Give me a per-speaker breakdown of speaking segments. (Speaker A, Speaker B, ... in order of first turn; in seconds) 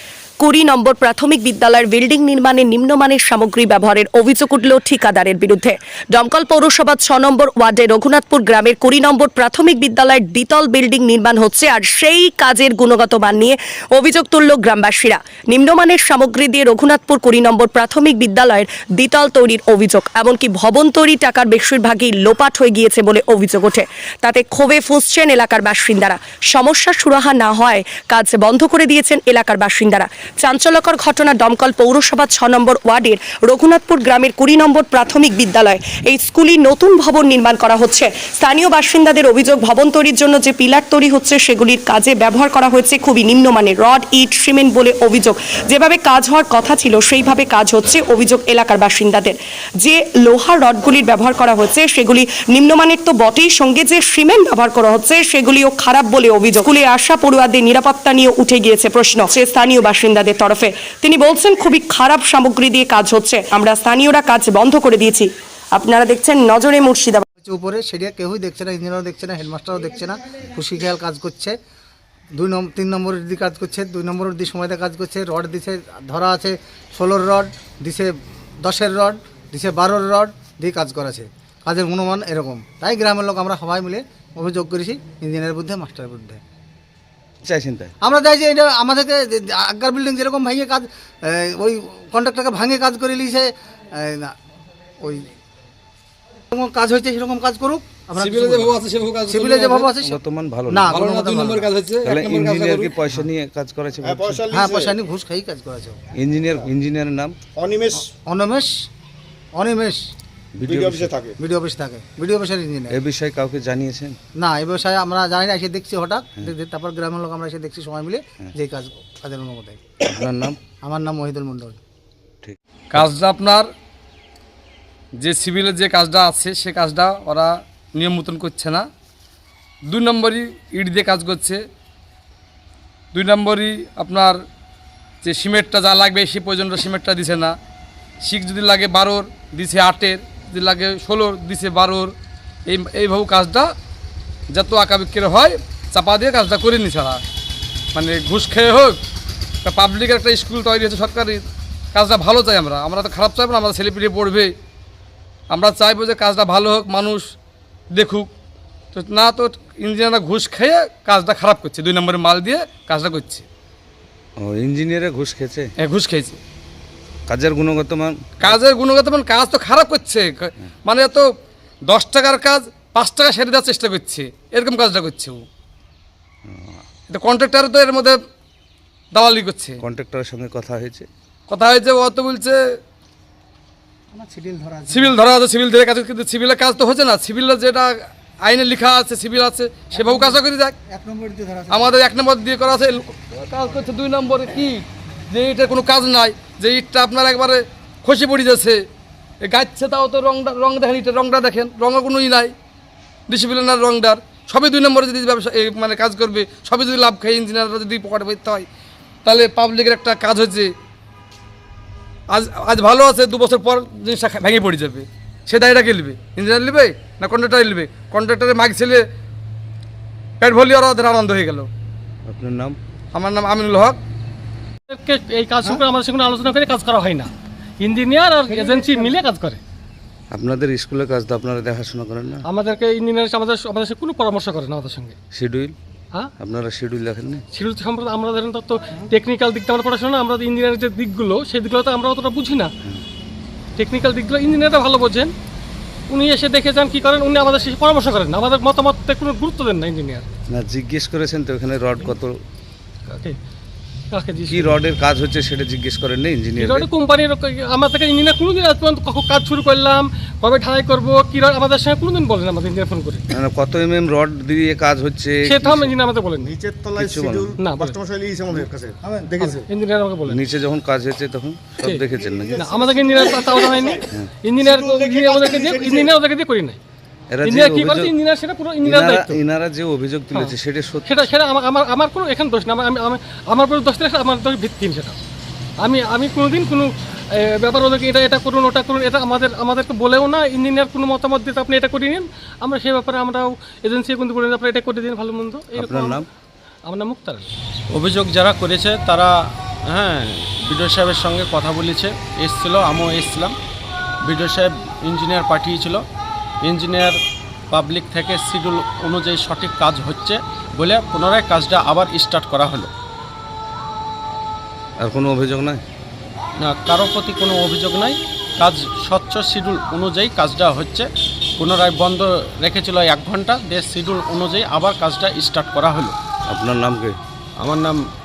Speaker A: 0.4-67.2
Speaker B: 67.4-71.5, 72.3-86.4, 88.0-94.3, 95.0-95.3, 96.5-100.2, 100.7-101.7, 104.5-106.0, 108.2-108.9, 109.5-110.1, 111.4-113.0, 114.4-119.8, 120.8-121.8, 184.1-185.2, 189.9-192.0, 228.6-229.0, 269.1-269.3
Speaker C: 87.4-87.9, 100.0-100.9, 102.0-104.5, 106.1-107.4, 110.5-111.1, 112.9-114.2, 120.0-120.6, 122.4-123.1, 164.4-165.7, 167.3-168.3, 176.5-176.8, 179.8-181.1, 222.3-222.8, 230.3-232.4, 235.3-235.8, 236.4-237.4, 250.5-252.4, 254.5-256.9, 263.3-265.9, 267.0-267.5, 270.3-272.8, 277.3-278.1, 278.8-281.1, 295.8-296.3, 315.0-315.8, 326.5-327.2
Speaker D: 98.2-99.9, 100.9-102.9, 122.9-123.7, 125.2-128.8, 129.9-131.6, 133.1-134.4, 135.2-137.6, 138.2-142.1, 142.7-143.7, 144.5-147.2, 147.9-149.0, 149.6-154.5, 155.5-157.2, 157.9-158.3, 158.9-163.5, 165.8-166.4, 168.4-171.3, 171.9-175.4, 177.1-178.2, 179.1-179.8, 181.5-182.6, 184.9-190.8, 191.7-198.8, 199.4-202.5, 203.3-208.7, 209.2-210.7, 212.3-219.0, 220.4-221.7, 223.1-224.0
Speaker E: 104.0-105.0, 107.5-108.1, 110.6-111.3, 266.4-269.7, 272.2-274.0, 274.6-276.1
Speaker F: 224.9-229.6, 232.5-235.2, 237.5-242.7, 243.8-245.3, 246.1-250.3, 253.1-253.4, 254.1-254.8, 256.6-263.2, 265.4-266.5, 267.6-268.0, 269.4-270.4, 272.6-276.8, 277.4-279.4, 281.1-285.2, 285.8-296.2, 296.9-297.5
Speaker G: 297.9-299.3, 299.9-303.6, 304.2-306.0, 306.6-307.2, 307.7-312.9, 316.6-321.1, 321.6-326.1, 327.6-328.0